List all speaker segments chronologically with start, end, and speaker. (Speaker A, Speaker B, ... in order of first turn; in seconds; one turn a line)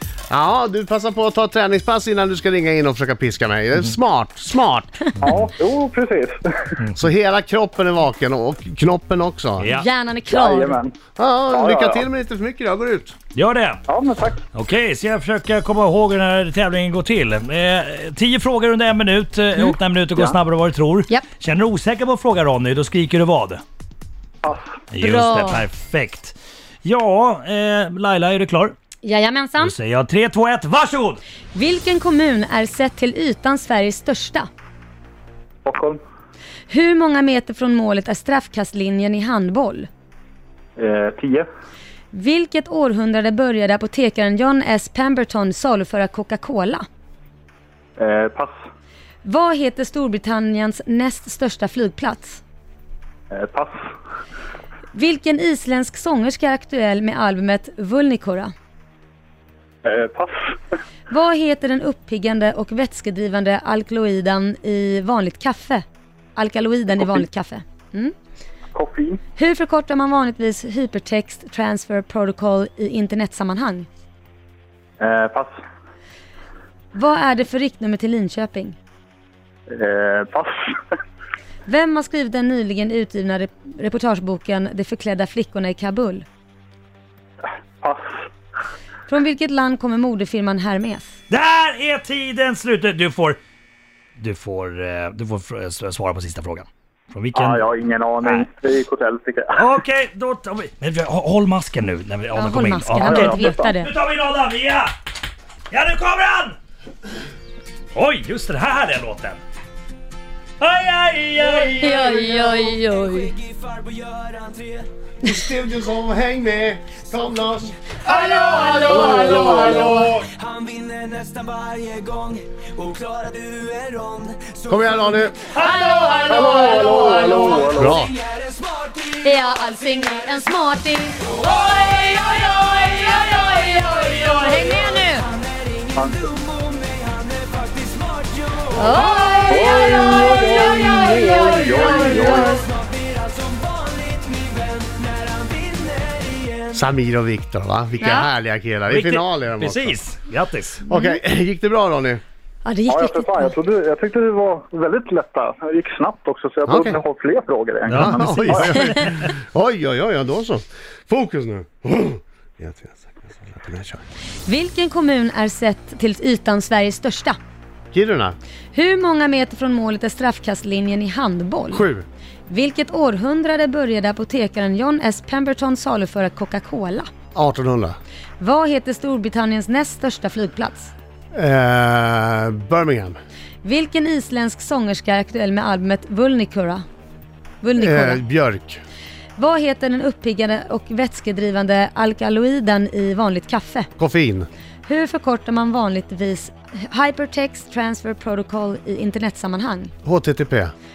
Speaker A: 0.3-4.9
Speaker B: 5.2-6.8
Speaker C: 5.2-5.5
Speaker A: 6.9-9.7
Speaker C: 9.6-9.9
Speaker D: 9.7-10.8
Speaker B: 10.3-10.9
Speaker A: 11.2-13.1
Speaker B: 11.5-12.0
Speaker C: 13.3-13.8
Speaker B: 13.9-14.4
Speaker C: 14.5-23.6
Speaker B: 24.4-24.7
Speaker C: 24.9-28.7
Speaker D: 25.0-25.6
Speaker D: 29.0-29.7
Speaker C: 29.6-31.2
Speaker D: 31.5-34.5
Speaker B: 35.6-36.0
Speaker D: 36.7-39.9
Speaker B: 40.8-41.5
Speaker D: 42.1-46.8
Speaker B: 48.0-48.6
Speaker D: 49.2-52.4
Speaker B: 53.3-53.8
Speaker D: 54.9-58.5
Speaker B: 59.8-60.5
Speaker D: 61.1-65.8
Speaker D: 66.3-68.1
Speaker B: 68.7-69.2
Speaker D: 69.4-73.9
Speaker B: 75.0-75.5
Speaker D: 76.9-78.8
Speaker B: 79.7-80.8
Speaker D: 81.7-86.2
Speaker B: 87.4-88.3
Speaker D: 89.1-91.1
Speaker C: 91.3-93.4
Speaker C: 94.2-98.5
Speaker B: 97.3-99.7
Speaker C: 99.5-104.9
Speaker D: 102.3-103.9
Speaker B: 103.0-103.7
Speaker C: 105.7-106.6
Speaker C: 107.9-109.4
Speaker C: 110.6-112.3
Speaker D: 111.8-113.4
Speaker A: 115.2-120.3
Speaker C: 118.1-119.8
Speaker D: 118.1-120.1
Speaker B: 118.9-119.8
Speaker E: 120.5-124.5
Speaker A: 124.7-125.4
Speaker C: 125.5-127.9
Speaker D: 125.6-126.7
Speaker B: 126.3-128.1
Speaker A: 127.7-128.1
Speaker D: 129.1-135.3
Speaker B: 135.9-136.3
Speaker D: 138.7-142.7
Speaker B: 139.5-142.5
Speaker A: 146.7-149.9
Speaker D: 148.0-148.3
Speaker C: 148.9-150.8
Speaker A: 150.9-152.2
Speaker D: 150.9-151.2
Speaker D: 152.6-153.5
Speaker B: 152.9-158.7
Speaker A: 156.7-157.0
Speaker C: 157.9-159.3
Speaker A: 157.9-164.0
Speaker D: 164.4-167.4
Speaker A: 167.9-168.3
Speaker D: 168.7-171.8
Speaker A: 171.7-172.1
Speaker D: 172.5-177.1
Speaker A: 177.3-178.0
Speaker D: 178.4-180.9
Speaker A: 181.3-183.2
Speaker D: 183.6-186.8
Speaker D: 187.6-188.2
Speaker A: 187.8-188.8
Speaker D: 189.4-193.9
Speaker A: 194.0-194.5
Speaker D: 194.8-199.9
Speaker A: 200.0-200.7